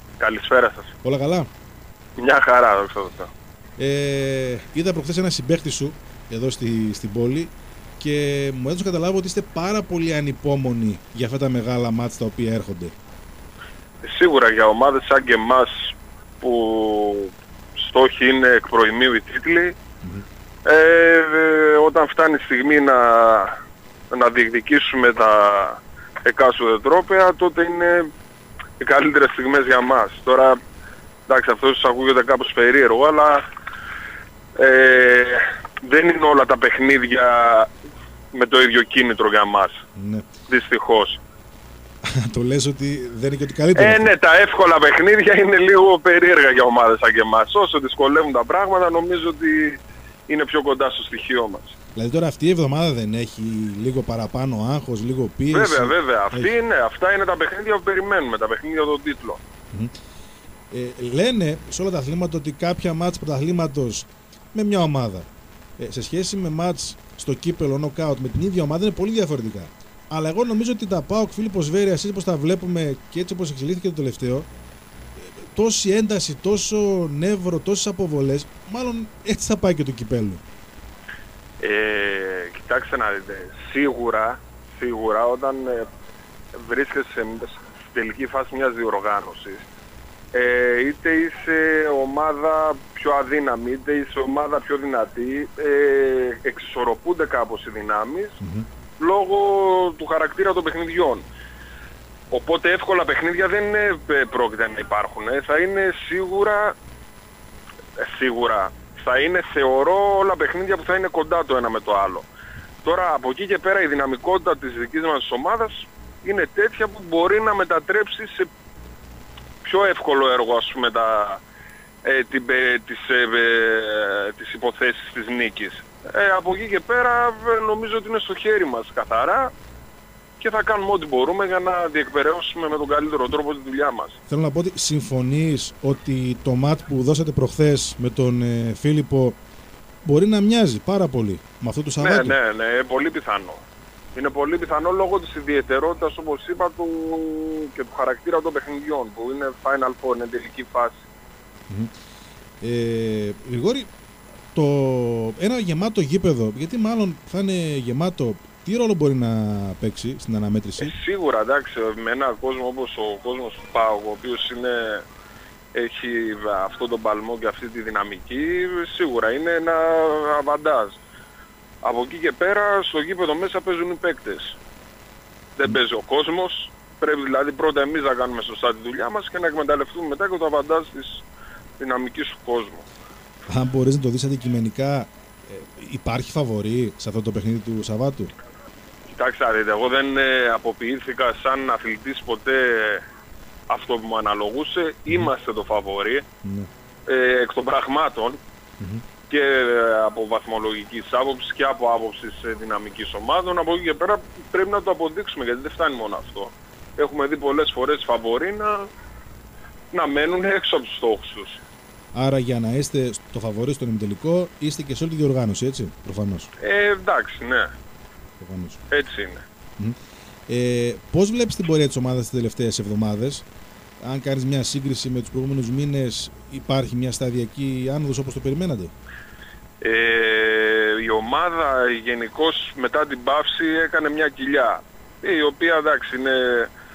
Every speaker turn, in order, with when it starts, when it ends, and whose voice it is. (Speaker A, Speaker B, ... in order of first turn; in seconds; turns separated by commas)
Speaker A: 0.2-0.9, Speaker B: 1.0-1.5, Speaker A: 2.2-3.3, Speaker B: 3.8-12.9, Speaker A: 14.0-19.8, Speaker A: 20.6-23.5, Speaker A: 24.1-28.1, Speaker A: 28.8-30.6, Speaker A: 31.3-33.4, Speaker A: 34.6-37.7, Speaker A: 38.3-39.8, Speaker B: 40.0-40.3, Speaker A: 40.5-41.2, Speaker B: 42.0-44.1, Speaker A: 43.8-51.8, Speaker B: 52.0-56.5, Speaker A: 55.5-59.4, Speaker B: 60.7-65.3, Speaker B: 65.8-74.5, Speaker B: 75.2-80.4, Speaker A: 81.6-85.8, Speaker A: 86.5-89.7, Speaker A: 90.3-98.4, Speaker B: 98.4-98.7, Speaker A: 99.0-101.2, Speaker A: 102.3-106.8, Speaker A: 108.0-112.3, Speaker A: 112.8-118.5, Speaker A: 119.6-121.4, Speaker A: 122.0-129.5, Speaker A: 130.4-134.2, Speaker B: 134.3-139.4, Speaker B: 140.1-142.4, Speaker A: 142.0-143.6, Speaker A: 144.2-151.0, Speaker B: 152.6-153.9, Speaker B: 154.5-160.9, Speaker A: 160.8-165.1, Speaker A: 165.7-171.0, Speaker A: 171.8-174.6, Speaker A: 175.6-181.2, Speaker A: 181.8-182.9, Speaker B: 183.5-188.3, Speaker A: 189.1-193.0, Speaker A: 193.7-196.2, Speaker B: 196.4-196.7, Speaker A: 197.1-198.4, Speaker A: 199.3-208.9, Speaker A: 209.9-211.6, Speaker B: 212.2-216.5, Speaker A: 216.6-217.7, Speaker B: 218.4-218.8, Speaker A: 218.9-219.4, Speaker B: 220.5-223.4, Speaker B: 224.0-228.9, Speaker A: 229.8-236.7